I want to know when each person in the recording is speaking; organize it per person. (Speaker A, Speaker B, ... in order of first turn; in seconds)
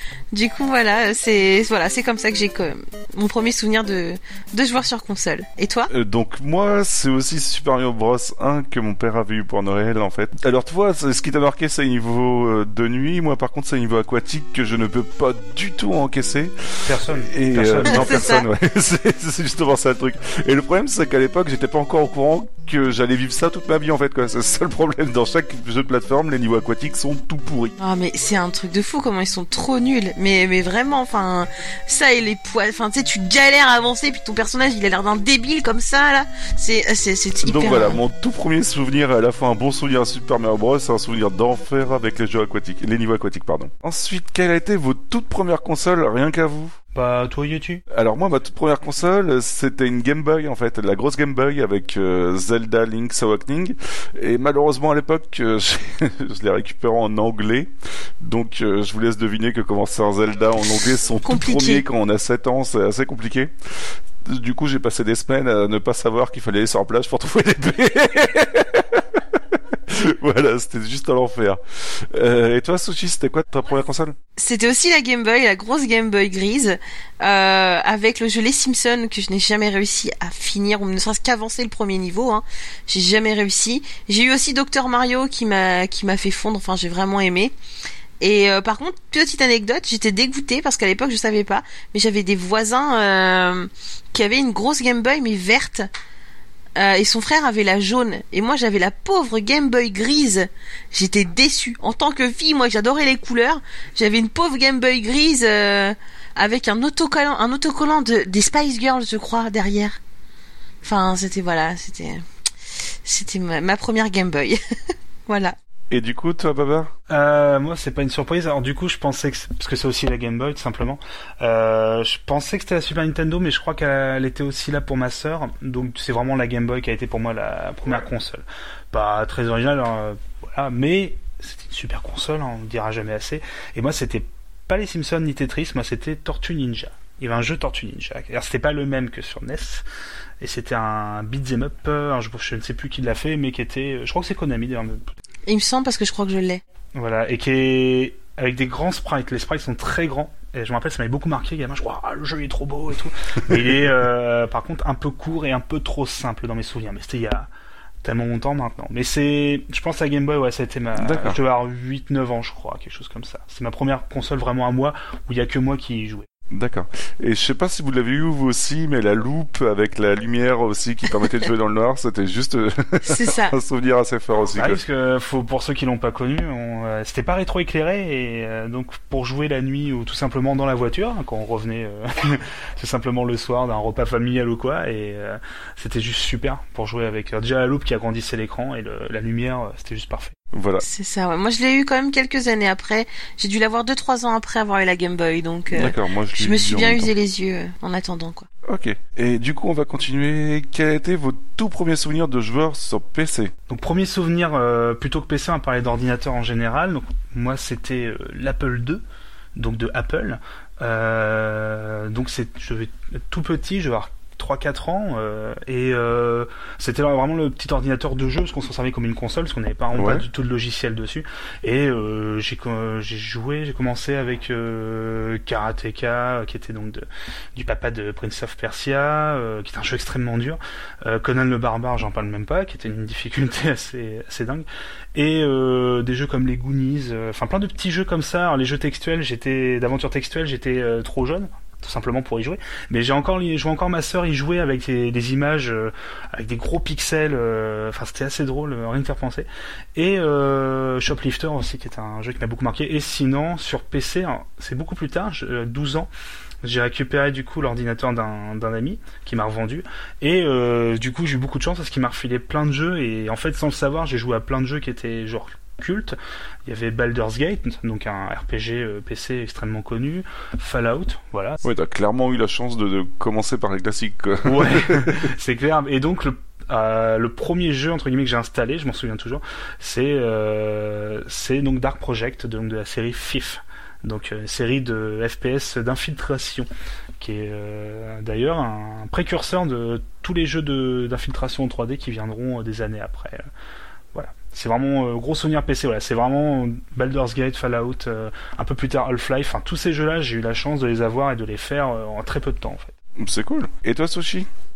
Speaker A: 0.3-5.9, 17.9-18.4, 27.8-38.0, 61.2-61.8, 74.4-87.5, 88.2-95.9, 96.8-110.0, 110.8-112.2, 113.0-115.5, 145.4-146.6, 173.0-173.5, 190.8-198.5
Speaker B: 5.9-27.7, 37.4-46.8, 47.9-74.2, 115.9-116.9, 161.0-161.4, 166.5-174.8, 190.5-190.8, 195.7-197.1, 198.6-203.5, 219.9-220.2, 271.6-275.3, 303.2-304.5
Speaker C: 16.8-18.1, 46.9-47.8, 117.1-139.8, 140.4-145.1, 146.9-157.5, 158.0-166.2, 174.6-190.3, 203.7-209.0, 209.6-256.1, 256.6-271.6, 274.4-286.7, 287.2-293.5, 294.1-302.9